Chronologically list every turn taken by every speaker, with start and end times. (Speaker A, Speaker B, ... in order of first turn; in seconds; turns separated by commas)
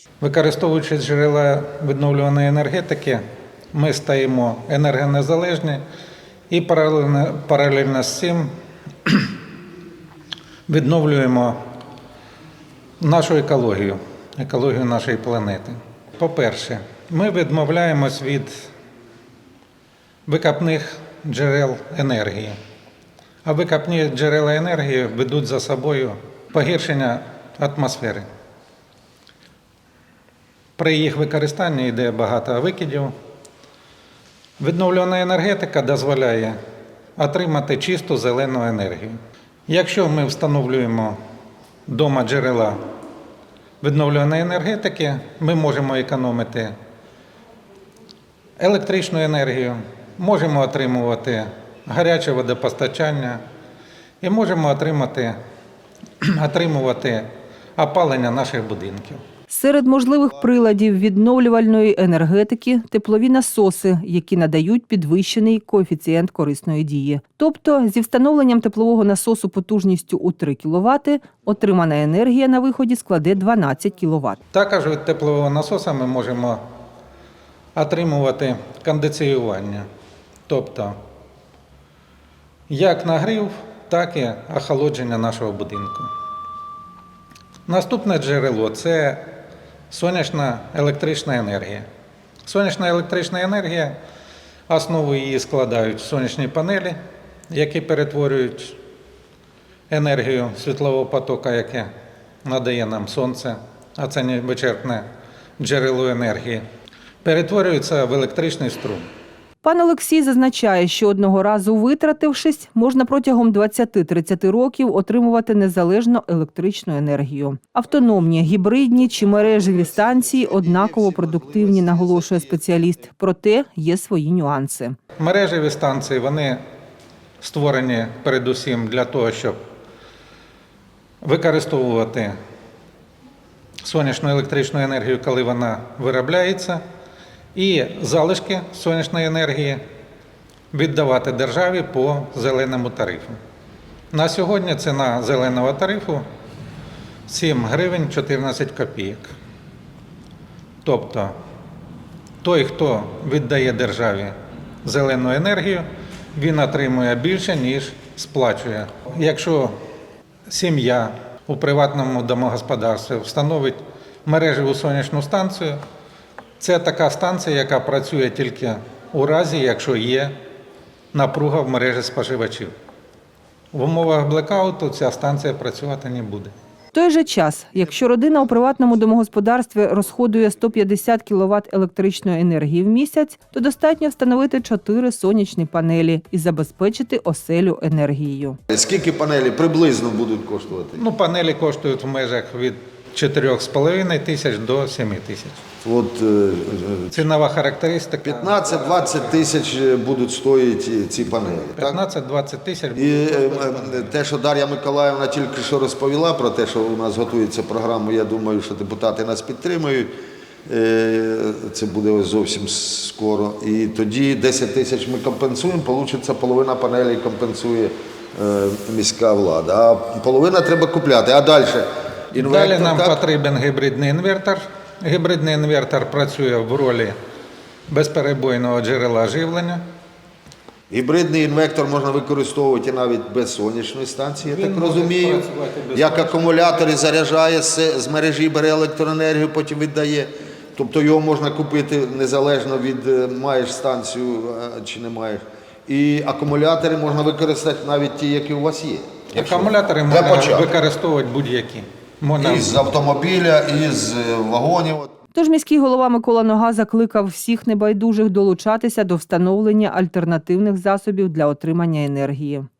Speaker A: 0.2-3.2, Speaker A: 3.7-5.8, Speaker A: 6.5-8.5, Speaker A: 9.0-9.3, Speaker A: 10.7-11.6, Speaker A: 13.0-18.7, Speaker A: 20.2-22.6, Speaker A: 23.4-28.2, Speaker A: 30.8-33.1, Speaker A: 34.6-36.6, Speaker A: 37.2-39.1, Speaker A: 39.7-41.2, Speaker A: 41.9-42.8, Speaker A: 43.8-46.7, Speaker A: 48.6-53.4, Speaker A: 54.2-55.4, Speaker A: 56.3-59.2, Speaker B: 59.5-74.4, Speaker A: 74.5-76.6, Speaker A: 77.7-79.9, Speaker A: 80.5-81.0, Speaker A: 82.7-86.1, Speaker A: 87.7-89.3, Speaker A: 89.9-91.9, Speaker A: 92.4-94.0, Speaker A: 94.7-97.0, Speaker A: 97.5-98.8, Speaker A: 99.9-101.9, Speaker A: 102.4-105.0, Speaker A: 105.6-106.6, Speaker A: 107.2-109.1, Speaker B: 109.6-125.0, Speaker C: 120.2-122.6, Speaker A: 125.2-126.6, Speaker A: 127.4-129.6, Speaker A: 131.2-132.4, Speaker A: 133.8-136.8, Speaker A: 137.5-139.8, Speaker A: 140.7-143.4, Speaker A: 144.1-146.2, Speaker A: 147.3-149.3, Speaker A: 150.8-151.3, Speaker A: 152.4-159.7, Speaker A: 160.5-165.8, Speaker A: 166.6-170.3, Speaker A: 171.1-172.7, Speaker A: 173.7-176.5, Speaker B: 176.9-188.6, Speaker C: 188.7-191.0, Speaker A: 190.9-195.6, Speaker C: 195.8-197.2, Speaker A: 197.1-199.3, Speaker C: 198.2-202.0, Speaker A: 201.8-204.1, Speaker C: 202.9-210.1, Speaker C: 210.7-223.2, Speaker A: 222.3-227.2, Speaker A: 227.9-229.8, Speaker C: 230.9-250.7, Speaker A: 234.4-237.0, Speaker A: 249.3-252.8, Speaker C: 252.4-255.1, Speaker B: 255.3-262.7